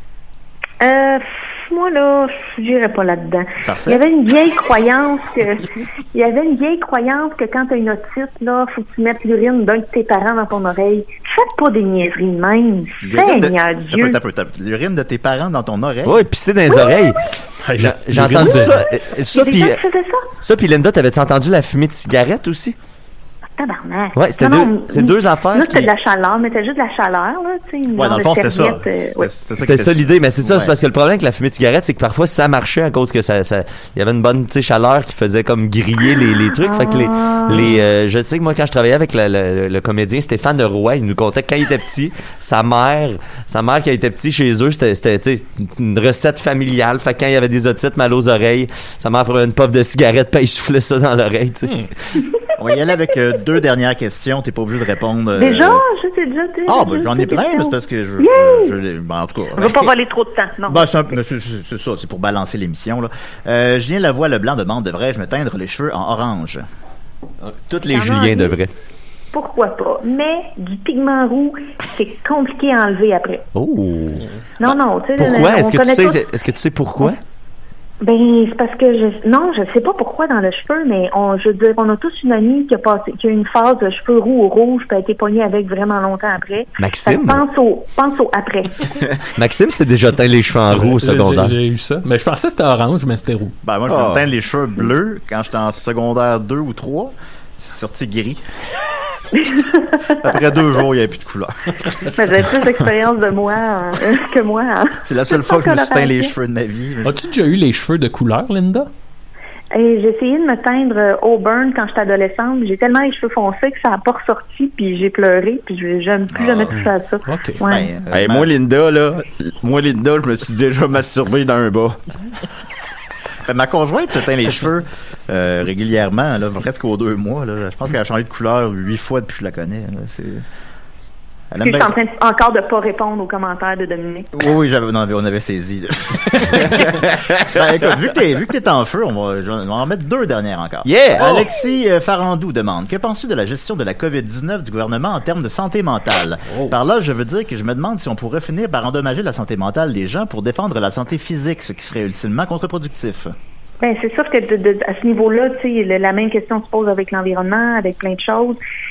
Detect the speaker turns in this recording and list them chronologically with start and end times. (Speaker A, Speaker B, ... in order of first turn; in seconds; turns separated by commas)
Speaker A: 0.8-14.2, Speaker B: 3.6-4.0, Speaker B: 13.0-16.2, Speaker C: 16.0-17.2, Speaker A: 16.7-17.1, Speaker D: 17.6-18.8, Speaker C: 17.8-19.8, Speaker A: 19.3-20.3, Speaker C: 20.4-22.8, Speaker A: 23.6-29.3, Speaker C: 24.1-25.9, Speaker B: 27.9-30.7, Speaker C: 29.6-51.7, Speaker A: 36.6-37.8, Speaker B: 52.6-55.8, Speaker A: 55.4-58.8, Speaker B: 56.7-59.9, Speaker A: 59.6-60.9, Speaker B: 60.7-66.6, Speaker C: 67.4-68.7, Speaker A: 67.9-68.5, Speaker A: 69.3-73.5, Speaker C: 73.5-77.2, Speaker A: 74.6-76.2, Speaker A: 78.0-88.9, Speaker C: 86.8-87.4, Speaker C: 89.3-91.6, Speaker D: 90.7-93.5, Speaker B: 93.6-98.4, Speaker E: 93.9-94.2, Speaker A: 99.5-100.1, Speaker B: 100.2-102.1, Speaker A: 102.1-106.3, Speaker B: 105.1-107.1, Speaker D: 107.0-108.9, Speaker A: 109.7-117.9, Speaker B: 116.3-116.8, Speaker D: 116.7-117.6, Speaker B: 117.6-118.5, Speaker E: 118.1-122.0, Speaker B: 123.5-130.4, Speaker B: 131.5-131.9, Speaker A: 131.6-134.3, Speaker B: 134.3-153.3, Speaker C: 140.8-141.3, Speaker A: 153.8-158.6